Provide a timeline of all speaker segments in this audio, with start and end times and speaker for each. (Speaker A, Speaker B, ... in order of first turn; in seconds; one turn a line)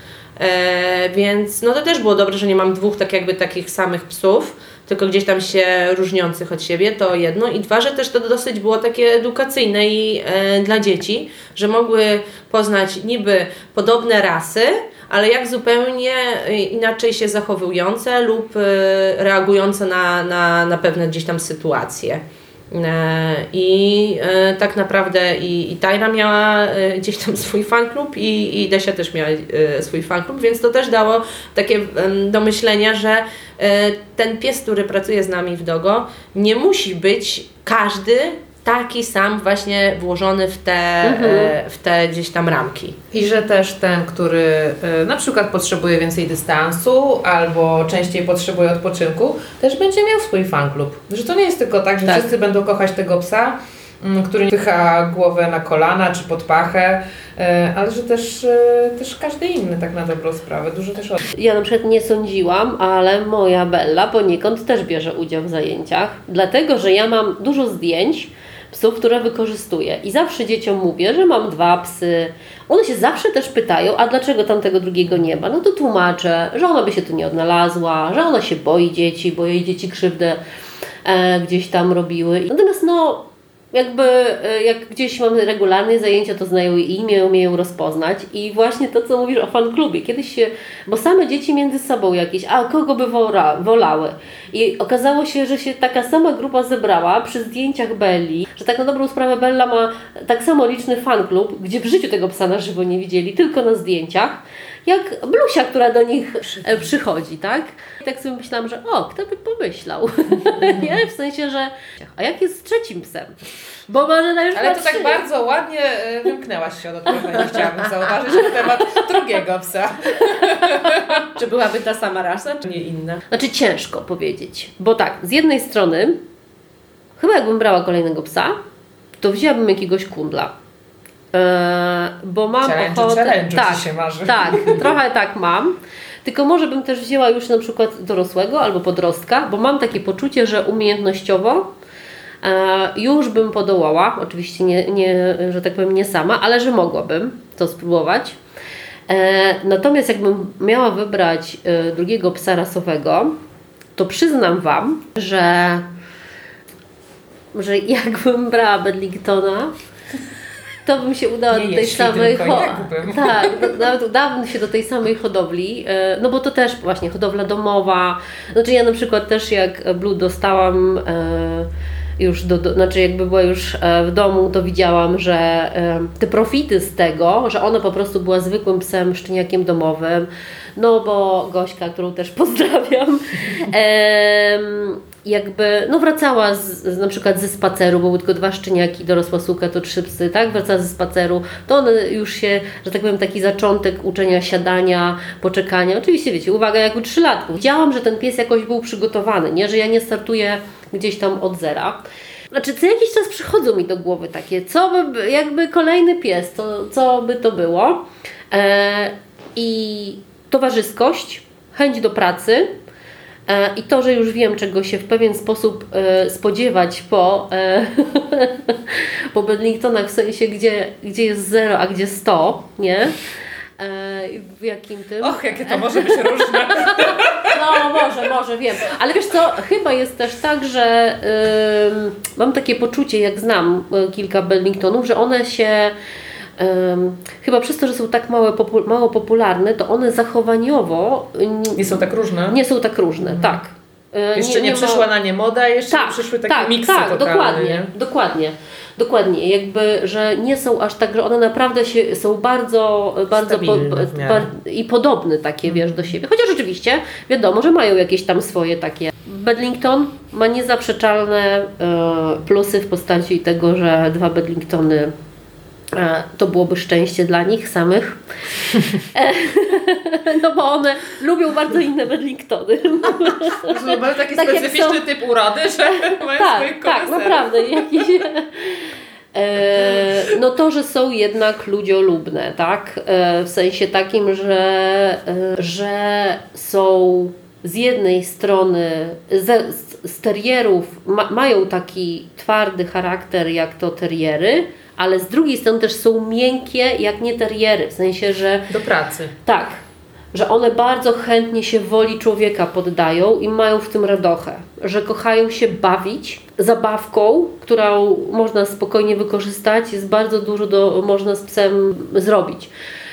Speaker A: 0.4-43.0
Speaker B: 41.0-41.5
Speaker C: 43.1-61.2
Speaker B: 61.3-80.4
Speaker B: 81.0-113.3
Speaker B: 113.9-115.2
Speaker C: 114.5-121.1
Speaker A: 121.3-123.2
Speaker B: 123.3-126.2
Speaker B: 127.2-128.5
Speaker B: 129.2-130.5
Speaker B: 131.3-141.7
Speaker C: 132.6-135.0
Speaker B: 142.4-148.4
Speaker B: 149.1-153.3
Speaker B: 153.9-155.8
Speaker B: 157.5-159.7
Speaker B: 160.8-202.0
Speaker C: 161.5-163.8
Speaker B: 202.5-212.7
Speaker B: 213.5-223.2
Speaker B: 223.8-235.9
Speaker C: 225.2-227.8
Speaker B: 236.6-245.1
Speaker C: 241.8-242.6
Speaker C: 243.2-243.6
Speaker C: 244.3-247.9
Speaker B: 245.9-265.1
Speaker C: 253.3-254.5
Speaker C: 255.7-256.1
Speaker B: 265.9-275.1
Speaker C: 273.6-277.8
Speaker B: 275.8-298.7
Speaker C: 279.8-280.4
Speaker C: 298.7-299.3
Speaker B: 299.4-299.8
Speaker B: 300.3-312.7